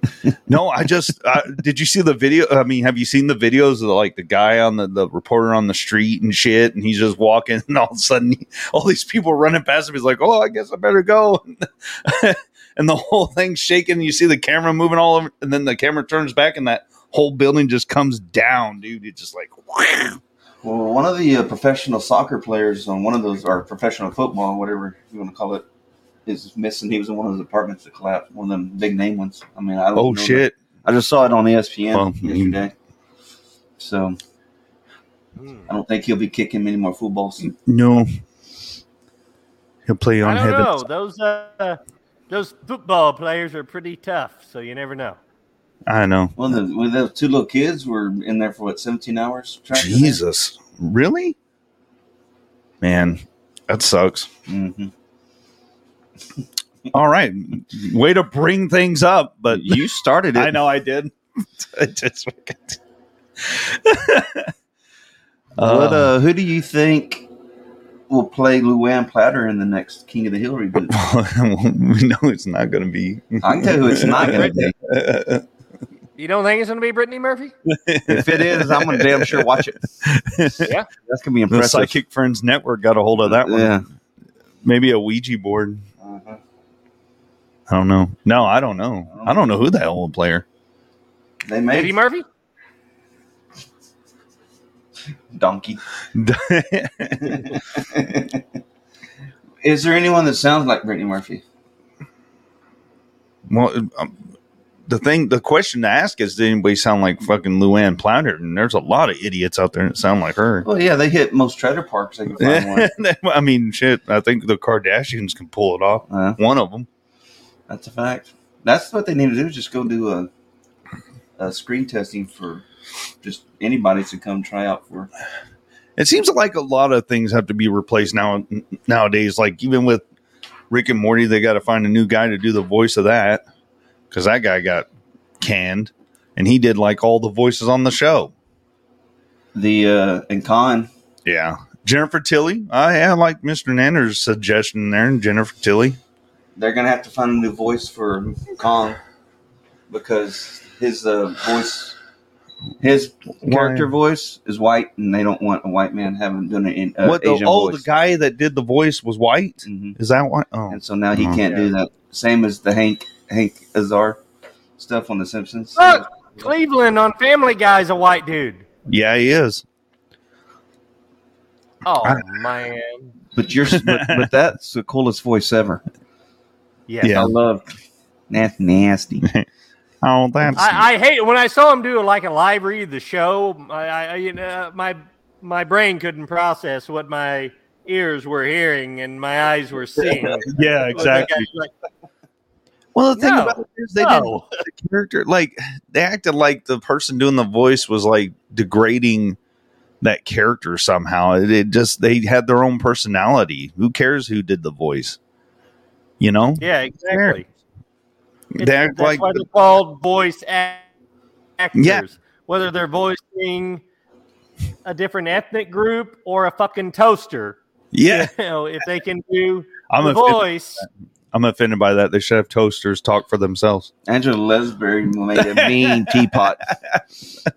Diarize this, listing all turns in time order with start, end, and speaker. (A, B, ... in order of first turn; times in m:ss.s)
0:00.5-0:20.2 A
0:20.6-0:25.6 B
0:26.3-0:32.7 B
0:30.0-0:30.6 A
0:31.9-0:32.6 A
0:33.8-0:34.2 B
0:35.4-0:35.7 C
0:35.7-0:37.5 B
0:37.4-0:38.1 A
0:39.9-0:40.9 A
0:40.2-0:45.2 C
0:45.9-0:46.4 A
0:46.4-0:50.2 B
0:49.7-0:51.4 A
0:52.8-0:54.3 A
0:54.5-0:54.9 B
0:56.9-0:59.8 A
0:59.5-1:00.5 B
1:00.3-1:02.8 A
1:03.4-1:04.5 A
1:05.6-1:06.1 A
1:05.6-1:07.3 B
1:08.1-1:11.0 B
1:10.9-1:15.4 A
1:13.4-1:14.8 B
1:14.2-1:14.6 C
1:16.2-1:17.5 C
1:17.7-1:20.7 A
1:18.1-1:19.9 B
1:21.1-1:22.0 B
1:21.5-1:23.8 A
1:23.2-1:23.8 B
1:24.6-1:25.8 A
1:26.0-1:26.4 B
1:27.7-1:30.4 A
1:29.1-1:29.4 B
1:31.5-1:31.9 B
1:31.7-1:32.2 C
1:35.3-1:35.8 B
1:36.1-1:37.4 A
1:37.2-1:38.4 B
1:39.6-1:41.4 B
1:43.5-1:44.2 A
1:44.9-1:50.7 A
1:50.6-1:52.9 B
1:52.4-1:56.9 A
1:56.1-1:56.4 B
1:57.7-2:00.3 B
2:01.4-2:02.6 B
2:03.2-2:05.1 B
2:06.0-2:10.0 A
2:10.7-2:13.4 A
2:14.1-2:14.9 A
2:15.4-2:18.3 A
2:19.5-2:20.9 B
2:21.3-2:26.0 A
2:26.6-2:29.0 B
2:29.9-2:32.0 B
2:32.8-2:37.8 B
2:33.4-2:33.9 A
2:37.0-2:41.4 A
2:39.6-2:40.0 B
2:40.7-2:44.2 B
2:41.4-2:41.7 C
2:44.8-2:46.0 B
2:45.8-2:48.6 C
2:48.9-2:49.6 A
2:51.8-2:53.1 C
2:53.3-2:55.8 B
2:53.7-2:54.3 A
2:56.9-2:57.2 C
2:57.0-2:57.3 A
2:57.1-2:57.7 B
2:58.3-2:59.2 B
3:00.0-3:00.9 A
3:00.6-3:11.7 C
3:10.0-3:10.4 B
3:10.5-3:11.4 A
3:13.0-3:19.4 A
3:13.2-3:14.4 C
3:20.0-3:25.2 A
3:26.2-3:27.4 A
3:26.6-3:27.4 C
3:28.6-3:29.4 A
3:28.6-3:30.8 C
3:31.6-3:33.8 C
3:31.8-3:32.0 A
3:34.8-3:40.8 C
3:37.9-3:38.3 A
3:39.9-3:43.9 A
3:44.1-3:46.7 B
3:45.4-3:46.3 A